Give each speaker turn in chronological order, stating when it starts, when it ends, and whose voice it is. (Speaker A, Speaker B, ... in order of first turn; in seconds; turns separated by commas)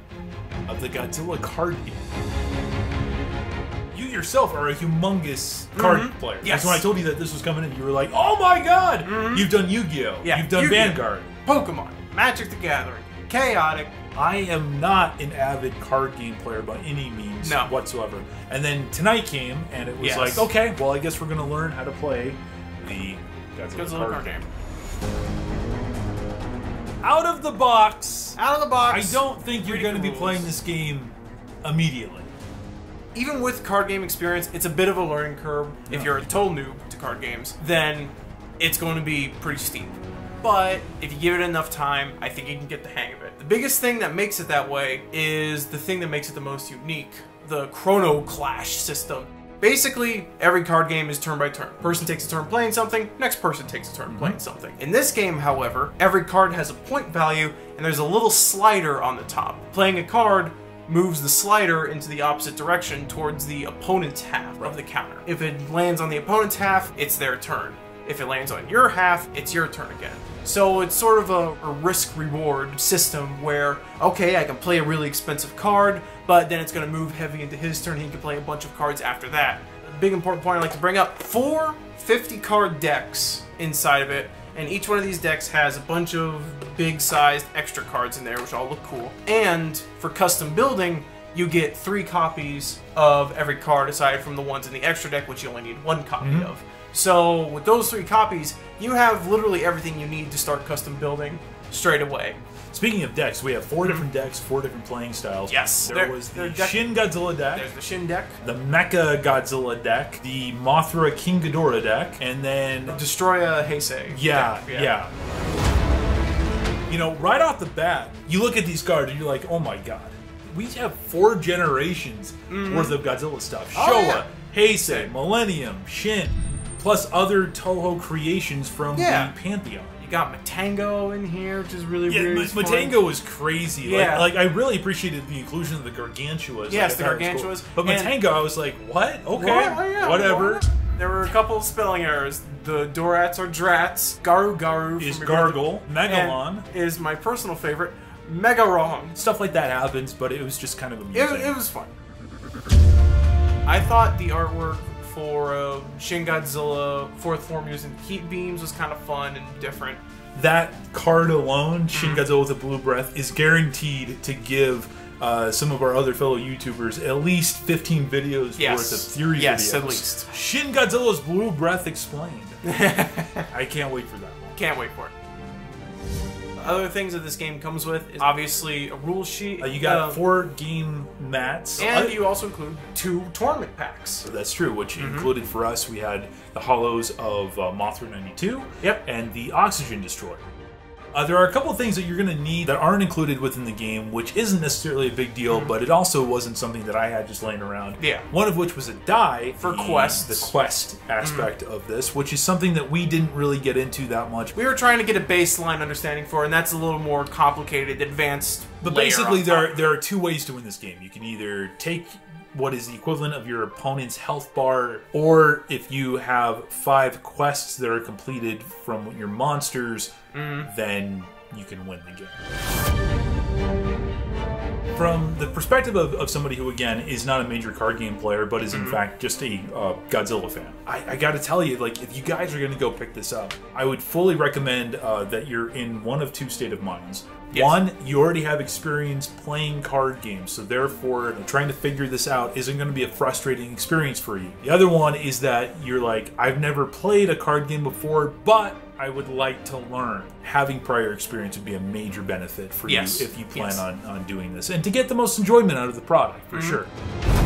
Speaker A: 0.7-2.0, Speaker A: 3.9-11.3, Speaker B: 5.8-6.8, Speaker B: 9.1-9.5, Speaker B: 10.2-13.9, Speaker A: 14.2-24.4, Speaker B: 17.4-17.7, Speaker B: 20.0-20.5, Speaker B: 23.7-24.5, Speaker A: 27.0-32.3, Speaker B: 28.4-30.6, Speaker B: 33.1-102.4, Speaker A: 54.1-54.4, Speaker A: 96.2-96.5, Speaker A: 102.7-107.7, Speaker B: 105.5-106.9, Speaker B: 107.5-108.4, Speaker A: 108.4-113.0, Speaker B: 112.9-115.0, Speaker A: 114.1-115.1, Speaker A: 116.9-130.0, Speaker B: 122.5-123.0, Speaker B: 123.7-125.1, Speaker B: 128.9-129.3, Speaker B: 130.0-133.0, Speaker A: 132.1-140.6, Speaker B: 133.8-134.3, Speaker B: 136.7-138.2, Speaker B: 139.3-149.2, Speaker A: 145.0-146.7, Speaker A: 149.2-151.6, Speaker B: 151.1-151.9, Speaker B: 153.7-160.0, Speaker A: 160.3-172.6, Speaker B: 161.9-162.2, Speaker B: 168.6-170.3, Speaker B: 172.6-173.5, Speaker A: 173.5-174.6, Speaker B: 174.6-175.1, Speaker B: 176.6-180.2, Speaker A: 179.6-182.2, Speaker B: 181.8-184.3, Speaker A: 184.2-190.5, Speaker B: 185.0-185.3, Speaker A: 191.1-204.5, Speaker B: 195.5-195.8, Speaker B: 198.0-198.3, Speaker B: 199.6-200.6, Speaker B: 201.2-201.5, Speaker B: 204.5-209.9, Speaker A: 208.8-220.1, Speaker B: 220.3-220.7, Speaker A: 220.6-222.4, Speaker A: 224.9-256.9, Speaker B: 228.7-229.0, Speaker B: 237.5-237.8, Speaker B: 252.9-253.8, Speaker B: 256.5-256.8